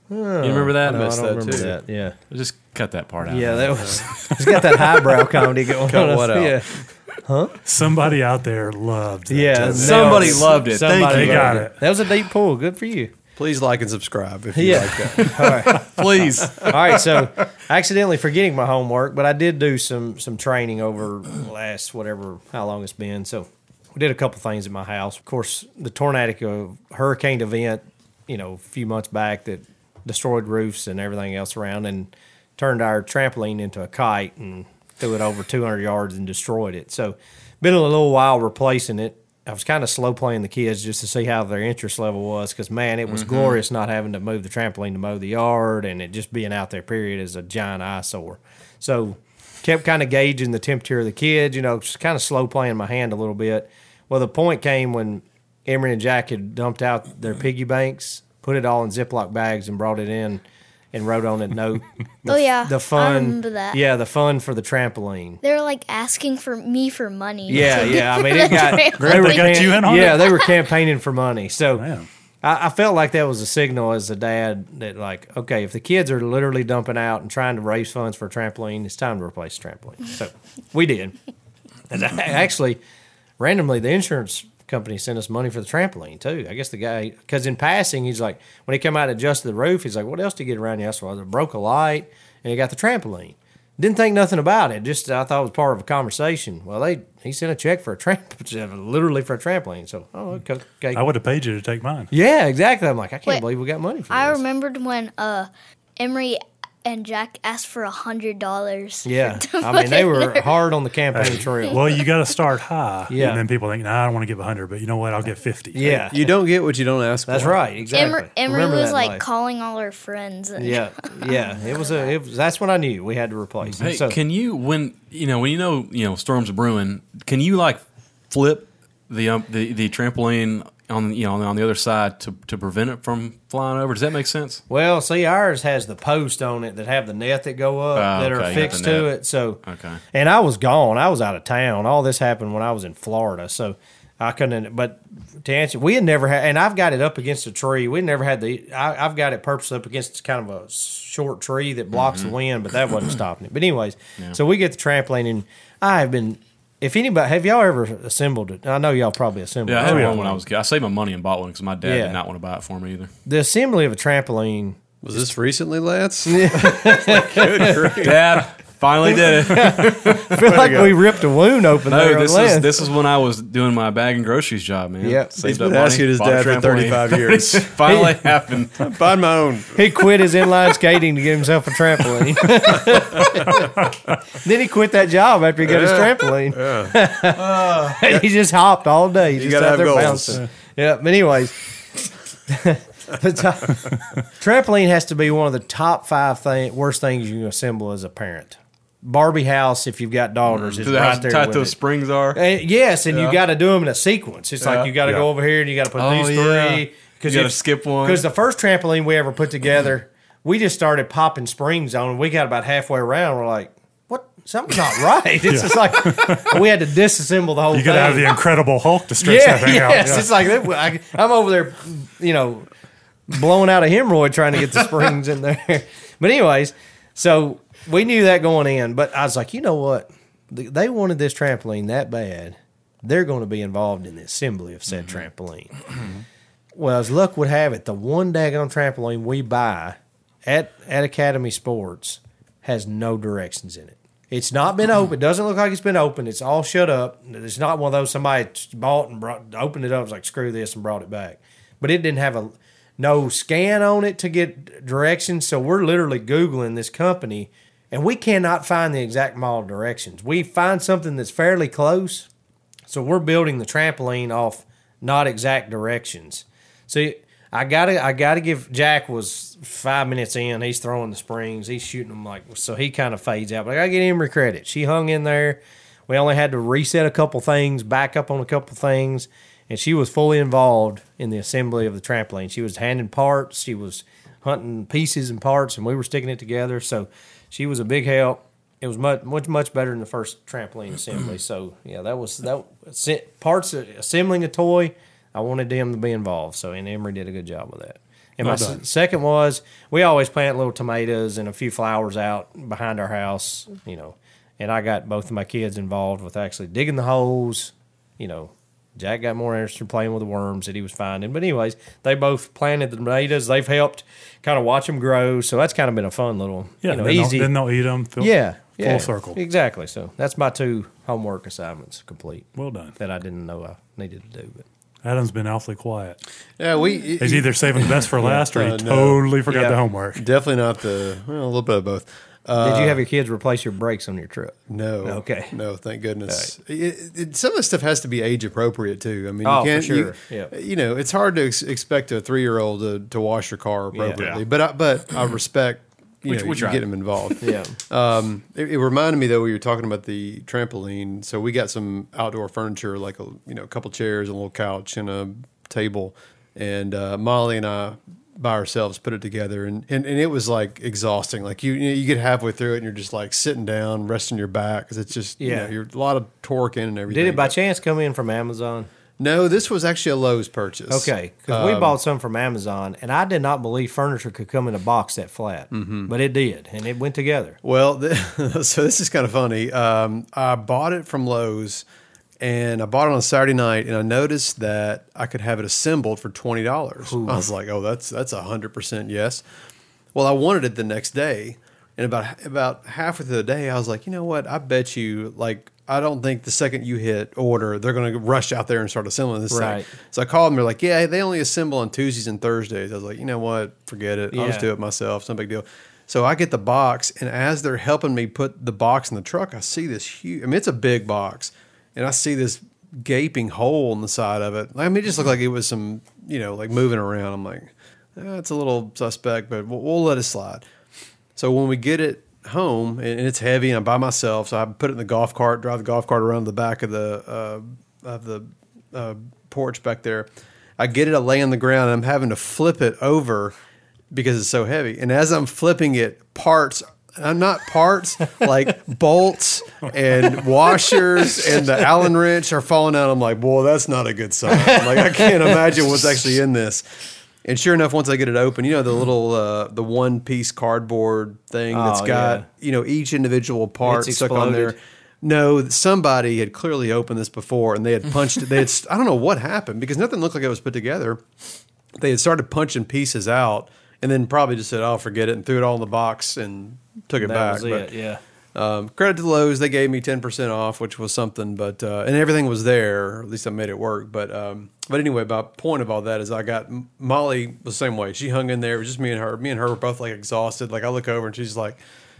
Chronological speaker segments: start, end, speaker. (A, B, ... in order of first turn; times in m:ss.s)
0:00.1-0:02.2 A
0:00.4-0:01.2 B
0:00.8-0:01.7 C
0:02.3-0:04.6 B
0:03.2-0:07.6 A
0:05.8-0:06.8 C
0:07.6-0:11.8 D
0:09.3-0:13.1 A
0:09.6-0:10.5 C
0:09.7-0:11.6 B
0:13.4-0:17.0 C
0:14.5-0:15.9 A
0:15.6-0:16.8 B
0:16.6-1:05.4 A
0:43.1-0:43.6 B
1:02.2-1:03.8 E
1:05.4-1:10.6 E
1:07.5-1:11.9 A
1:09.0-1:10.4 D
1:11.8-1:12.1 D
1:12.4-1:21.2 A
1:21.9-1:22.8 A
1:23.4-1:41.0 A
1:40.9-1:42.1 D
1:42.1-1:44.4 A
1:44.1-1:50.5 E
1:49.0-1:52.0 A
1:51.1-1:56.0 D
1:53.1-1:53.4 A
1:55.7-1:56.3 A
1:56.1-1:57.6 C
1:57.3-1:59.2 A
1:57.9-2:02.2 E
2:00.6-2:04.2 A
2:03.8-2:14.6 B
2:14.7-2:19.6 A
2:17.9-2:20.0 B
2:20.1-2:40.4 A
2:32.0-2:32.3 B
2:39.7-2:43.1 B
2:39.8-2:40.2 D
2:41.8-2:42.2 A
2:43.2-2:45.3 A
2:45.0-2:48.2 C
2:46.2-2:48.1 A
2:48.0-2:50.8 B
2:49.0-2:52.8 A
2:50.4-2:51.0 C
2:51.8-2:58.9 B
2:55.0-2:55.3 A
2:55.4-2:57.8 C
2:57.8-2:58.3 A
2:58.8-2:59.8 C
2:59.7-3:11.6 A
3:02.9-3:03.2 C
3:05.6-3:08.2 C
3:09.3-3:10.4 C
3:12.5-3:21.8 A
3:20.5-3:22.4 B
3:22.3-3:38.4 A
3:24.6-3:25.2 B
3:26.0-3:28.2 B
3:35.5-3:36.6 D
3:37.7-3:40.3 D
3:39.2-3:42.7 A
3:43.3-3:55.8 A
3:56.8-4:22.3 A
4:22.9-5:17.6 A
4:58.4-4:58.8 D
5:16.8-5:19.4 D
5:18.2-5:24.6 A
5:22.6-5:22.9 D
5:25.0-5:26.2 D
5:26.6-5:29.2 C
5:27.2-5:30.2 D
5:28.2-5:28.5 A
5:29.5-5:29.8 A
5:30.1-5:33.0 C
5:32.6-5:35.5 A
5:34.7-6:07.5 C
5:39.4-5:40.5 A
5:43.9-5:44.3 A
5:44.2-5:44.4 B
5:46.2-5:47.3 B
5:47.4-5:47.8 A
6:05.4-6:05.7 A
6:07.1-6:08.9 A
6:09.2-6:12.0 C
6:10.9-6:17.6 A
6:15.7-6:16.1 C
6:17.6-6:21.8 C
6:22.4-6:29.4 C
6:27.0-6:27.5 A
6:30.1-7:00.6 C
6:39.5-6:39.9 A
6:44.3-6:44.7 A
7:01.4-7:13.6 C
7:14.1-7:26.8 C
7:20.7-7:21.8 A
7:24.5-7:25.8 A
7:27.4-7:41.2 C
7:31.7-7:32.4 A
7:33.8-7:34.7 A
7:42.0-7:47.9 C
7:47.2-7:48.2 A
7:48.5-8:01.8 C